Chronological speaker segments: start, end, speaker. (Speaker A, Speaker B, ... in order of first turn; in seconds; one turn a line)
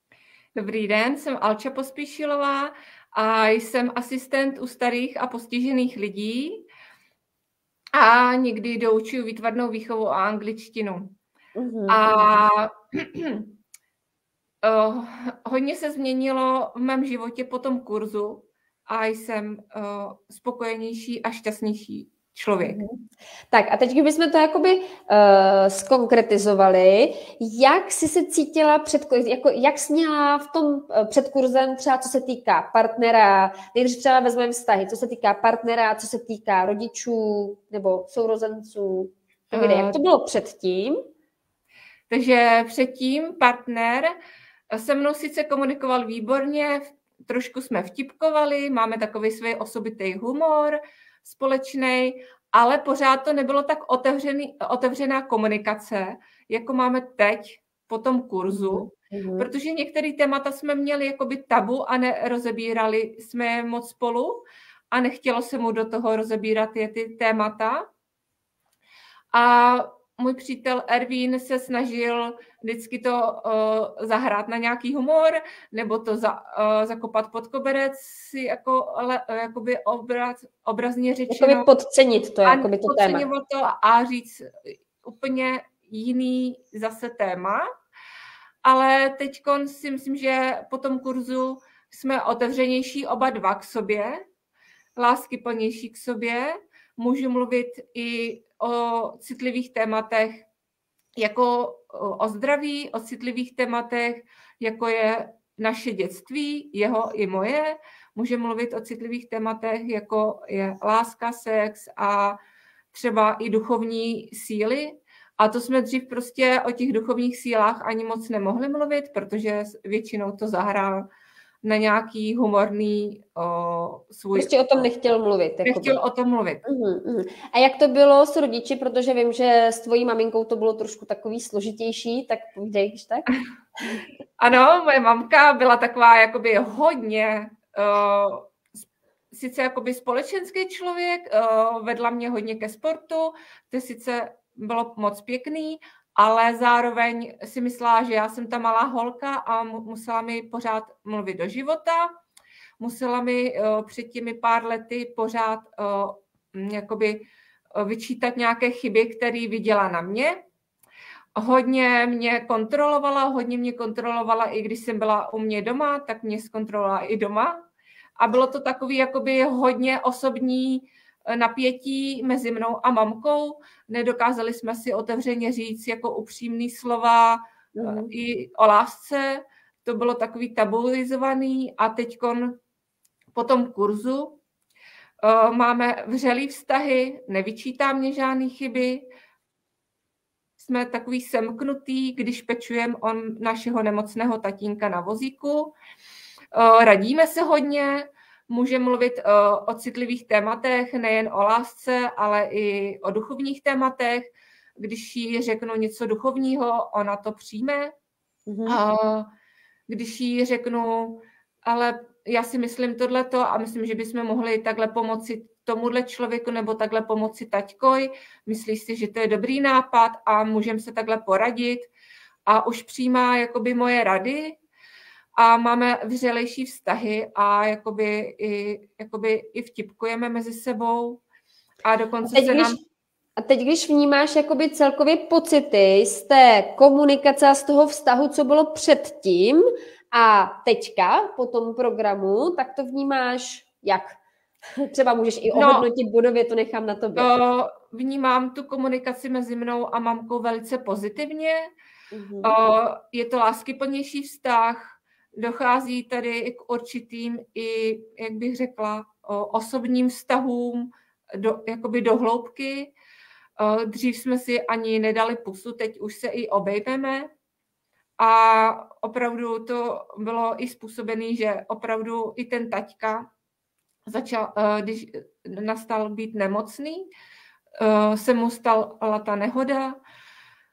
Speaker A: 0.6-6.6
Speaker A: 8.0-11.1
Speaker B: 11.6-12.2
Speaker A: 11.9-13.6
Speaker A: 14.6-22.8
Speaker B: 22.6-23.0
Speaker B: 23.5-41.0
Speaker A: 39.5-40.0
Speaker A: 42.1-44.1
Speaker A: 44.7-67.8
Speaker B: 58.5-59.5
Speaker A: 69.3-81.7
Speaker B: 81.3-83.2
Speaker A: 82.5-84.5
Speaker A: 85.0-87.7
Speaker A: 88.7-94.2
Speaker A: 95.0-100.5
Speaker A: 101.2-112.4
Speaker A: 112.9-121.1
Speaker A: 121.6-124.5
Speaker B: 124.3-126.0
Speaker A: 125.7-126.6
Speaker B: 126.7-133.3
Speaker A: 134.4-138.4
Speaker A: 139.3-152.1
Speaker A: 152.8-160.3
Speaker A: 161.4-167.6
Speaker A: 168.2-182.6
Speaker B: 177.8-178.1
Speaker A: 183.3-184.4
Speaker A: 185.2-189.1
Speaker A: 190.6-195.8
Speaker A: 196.5-207.9
Speaker B: 208.5-208.8
Speaker A: 208.7-209.3
Speaker A: 209.9-221.9
Speaker A: 222.5-224.6
Speaker A: 225.4-231.2
Speaker A: 231.8-232.8
Speaker B: 232.2-232.8
Speaker B: 233.4-239.6
Speaker B: 240.1-244.2
Speaker B: 244.8-247.3
Speaker A: 245.5-245.9
Speaker A: 247.2-251.6
Speaker B: 252.1-252.5
Speaker A: 252.4-262.9
Speaker A: 263.6-267.3
Speaker A: 268.2-273.3
Speaker A: 274.1-277.1
Speaker A: 277.8-279.9